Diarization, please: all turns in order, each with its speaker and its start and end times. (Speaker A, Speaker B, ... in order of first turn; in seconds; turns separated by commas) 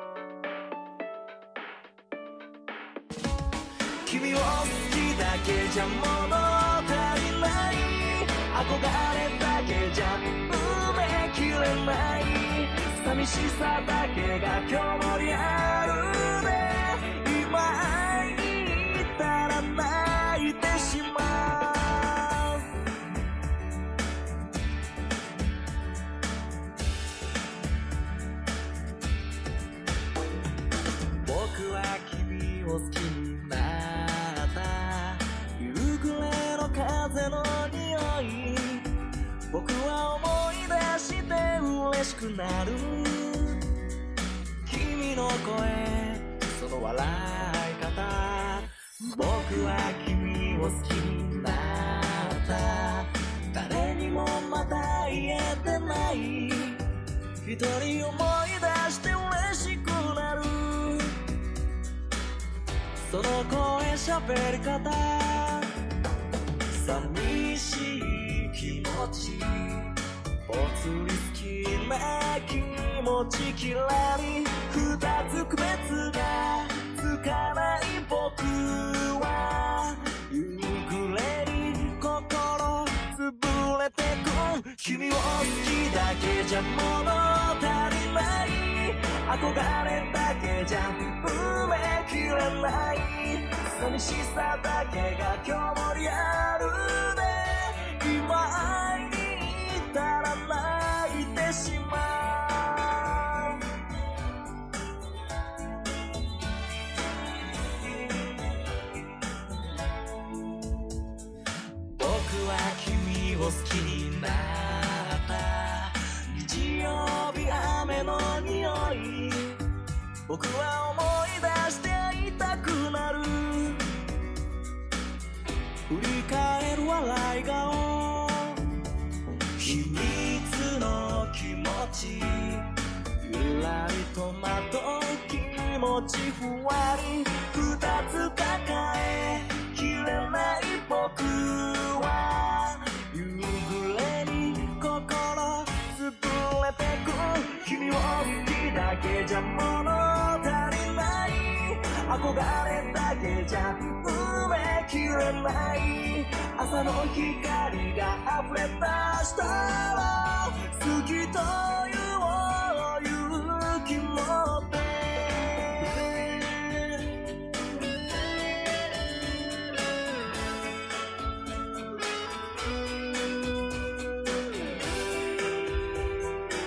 Speaker A: 4.0-22.7, Speaker A: 31.2-38.9, Speaker A: 39.5-43.7, Speaker A: 44.6-56.8, Speaker A: 57.4-61.2, Speaker A: 63.0-65.7, Speaker A: 66.7-69.9, Speaker A: 70.5-103.6, Speaker A: 111.9-119.5, Speaker A: 120.3-123.9, Speaker A: 125.9-128.8, Speaker A: 129.6-167.1